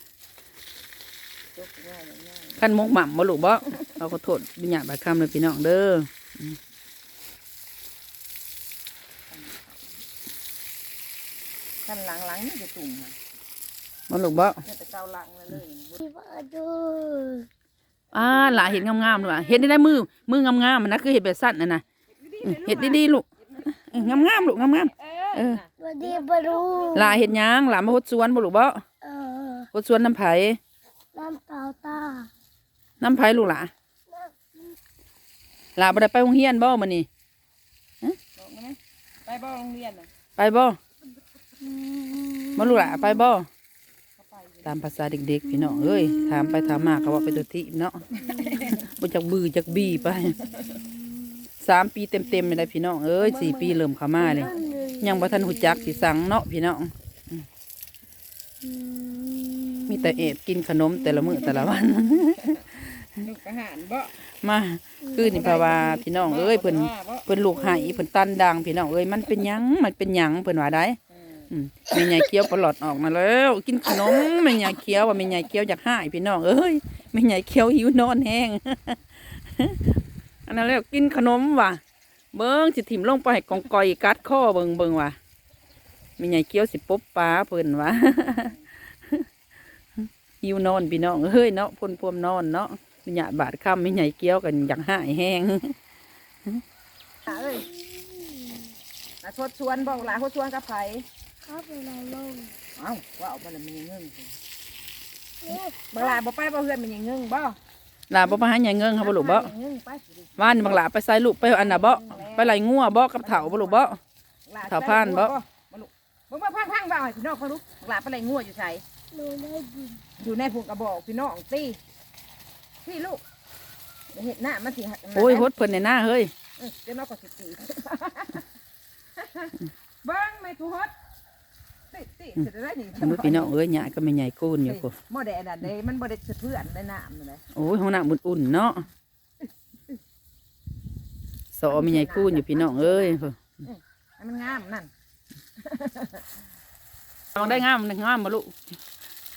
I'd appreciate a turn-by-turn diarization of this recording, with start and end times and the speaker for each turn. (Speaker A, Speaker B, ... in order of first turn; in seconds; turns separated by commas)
Speaker A: 1.5-2.6, Speaker B: 2.6-6.6, Speaker A: 9.3-10.0, Speaker A: 11.8-13.2, Speaker B: 14.1-14.6, Speaker A: 14.6-16.0, Speaker C: 16.0-17.5, Speaker B: 18.1-21.8, Speaker A: 18.5-19.4, Speaker A: 22.2-27.0, Speaker B: 22.4-25.6, Speaker C: 25.8-27.2, Speaker B: 26.9-28.8, Speaker C: 29.0-29.7, Speaker B: 29.7-30.6, Speaker C: 31.1-32.3, Speaker B: 33.0-33.7, Speaker C: 34.1-34.5, Speaker B: 35.8-37.1, Speaker A: 38.4-40.1, Speaker B: 40.4-40.8, Speaker C: 41.9-43.2, Speaker B: 42.5-43.5, Speaker A: 44.2-44.8, Speaker B: 44.6-48.0, Speaker C: 45.5-47.4, Speaker A: 48.1-48.9, Speaker B: 48.6-50.5, Speaker C: 50.1-50.9, Speaker A: 50.4-50.8, Speaker B: 51.6-57.5, Speaker A: 53.2-55.0, Speaker C: 54.3-56.0, Speaker C: 58.6-60.3, Speaker B: 59.9-63.0, Speaker C: 61.0-61.7, Speaker A: 62.4-64.2, Speaker B: 64.3-71.0, Speaker C: 65.0-66.0, Speaker A: 65.2-67.3, Speaker C: 67.5-68.0, Speaker A: 71.1-71.5, Speaker B: 71.5-81.8, Speaker B: 82.3-85.2, Speaker B: 86.2-89.3, Speaker B: 90.0-95.8, Speaker A: 97.3-97.7, Speaker C: 97.3-98.6, Speaker A: 99.2-101.1, Speaker C: 101.4-102.5, Speaker A: 102.8-104.3, Speaker C: 105.4-106.2, Speaker A: 105.9-107.6, Speaker B: 108.1-109.5, Speaker A: 109.0-110.8, Speaker B: 110.4-114.0, Speaker A: 111.4-112.6, Speaker A: 113.2-113.9, Speaker A: 114.5-118.8, Speaker B: 114.7-115.4, Speaker C: 119.1-120.0, Speaker A: 120.2-121.8, Speaker A: 122.8-123.2, Speaker A: 124.1-125.5, Speaker B: 125.1-126.3, Speaker A: 126.6-128.5, Speaker A: 129.2-130.9, Speaker A: 131.9-133.5, Speaker B: 133.0-134.9, Speaker A: 134.6-137.4, Speaker B: 137.5-138.8, Speaker B: 141.5-143.4, Speaker A: 141.7-144.9, Speaker A: 145.6-146.2, Speaker A: 147.3-147.6, Speaker B: 147.3-148.8